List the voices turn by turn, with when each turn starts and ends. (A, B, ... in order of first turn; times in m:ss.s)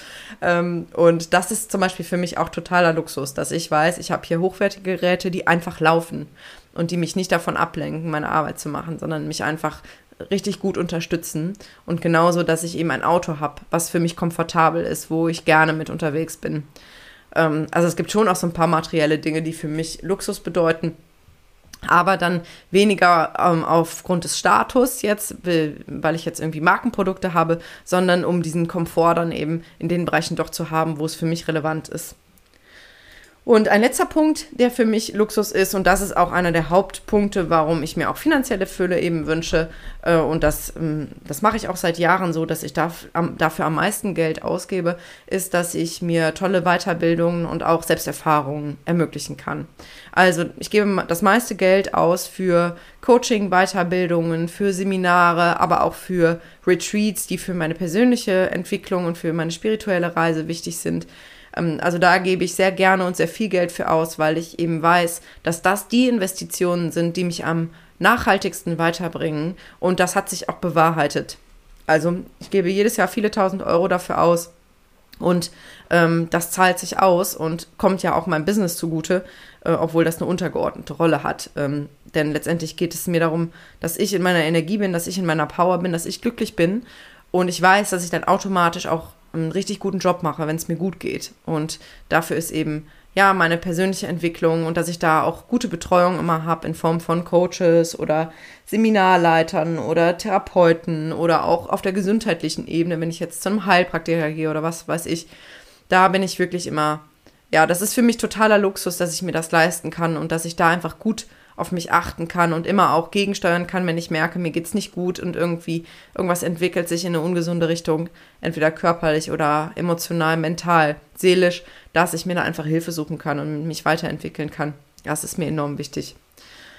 0:00.4-0:16.7 A
0:17.3-0:21.0 A
0:21.9-0:32.2 A
0:33.4-1:14.5 A
1:15.2-1:45.3 A
1:45.9-2:06.2 A